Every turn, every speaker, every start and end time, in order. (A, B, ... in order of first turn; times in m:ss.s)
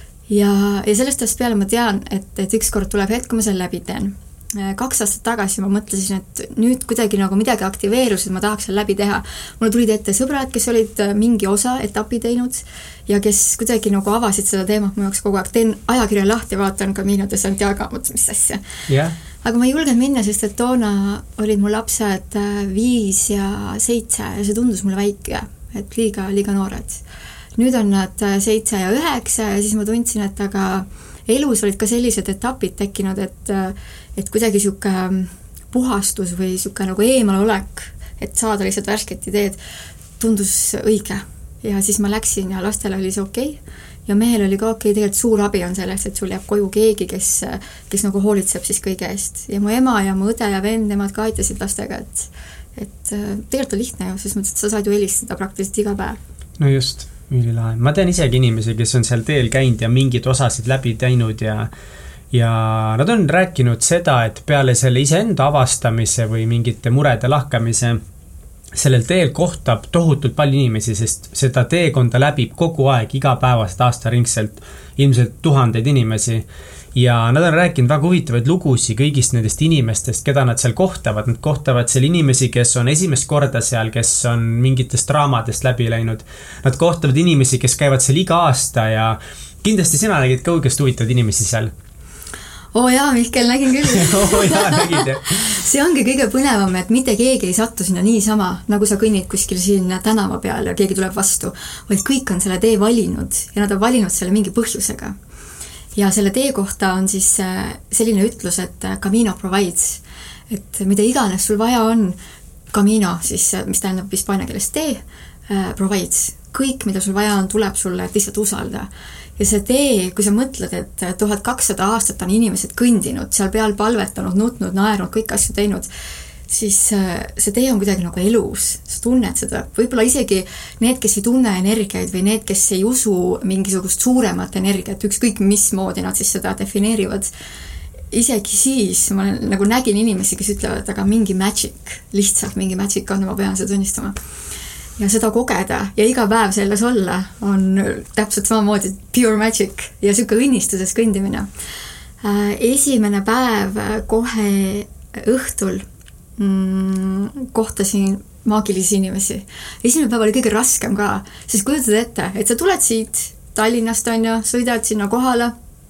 0:00.3-0:18.7 A
0:18.9-0:19.2 B
0:19.4-0:27.0 A
0:27.6-0:39.6 A
0:40.2-0:56.2 A
0:56.6-1:01.7 B
1:02.3-1:08.0 B
1:08.7-1:31.7 B
1:32.7-1:45.1 A
1:33.9-1:35.6 B
1:46.0-1:52.2 A
1:52.7-2:05.9 A
2:06.5-2:17.3 A
2:18.1-2:24.2 A
2:25.0-2:31.5 A
2:32.2-2:35.8 A
2:36.4-2:45.5 A